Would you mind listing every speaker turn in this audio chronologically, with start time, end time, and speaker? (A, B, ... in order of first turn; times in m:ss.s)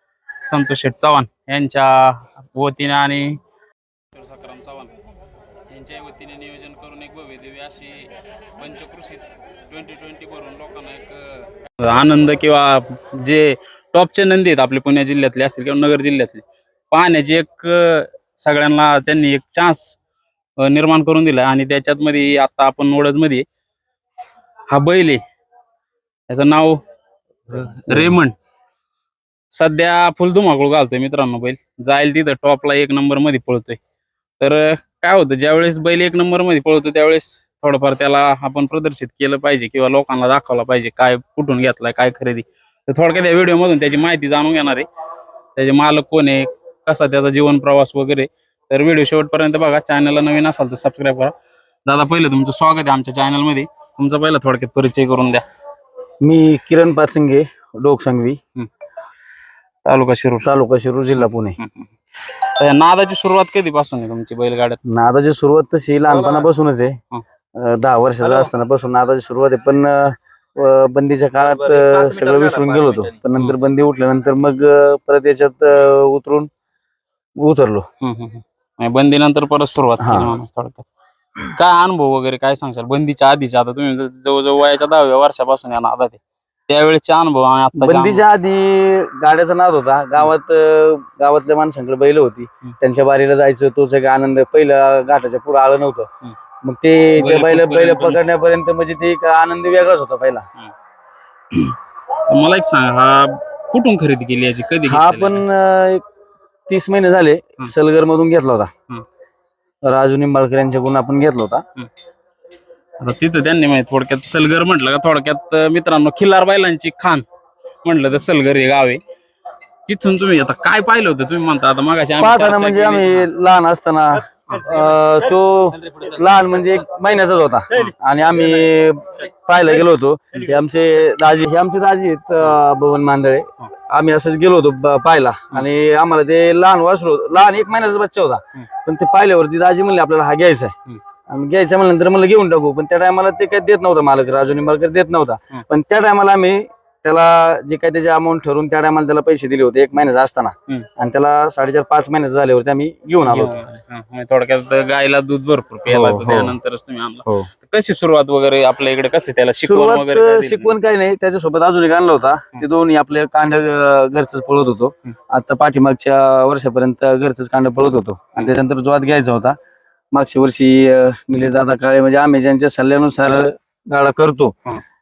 0:00.4-0:03.4 A
0:04.1-0:04.9 A
0:05.7-0:20.0 A
0:20.6-0:23.4 A
0:24.7-0:25.2 A
0:26.3-0:26.8 A
0:27.5-0:28.4 A
0:27.9-0:28.1 B
0:29.5-0:33.8 A
0:34.4-0:44.9 A
0:45.6-0:51.3 A
0:51.8-0:55.4 A
0:56.2-0:58.4 B
0:59.8-1:00.5 A
1:00.4-1:01.6 B
1:01.6-1:04.8 A
1:04.8-1:07.0 B
1:07.6-1:16.5 B
1:17.4-1:17.9 B
1:18.0-1:20.8 A
1:20.0-1:20.3 B
1:21.4-1:28.2 A
1:27.8-1:36.1 B
1:36.6-1:40.5 B
1:37.2-1:38.2 A
1:41.5-1:45.4 A
1:44.8-1:46.0 B
1:46.7-1:48.7 B
1:49.8-1:51.6 B
1:53.0-1:57.2 A
1:57.8-1:59.0 A
1:59.8-2:03.3 A
2:02.2-2:20.7 B
2:21.3-2:33.6 B
2:33.3-2:40.7 A
2:35.9-2:36.6 B
2:39.6-2:49.6 B
2:50.1-2:54.5 B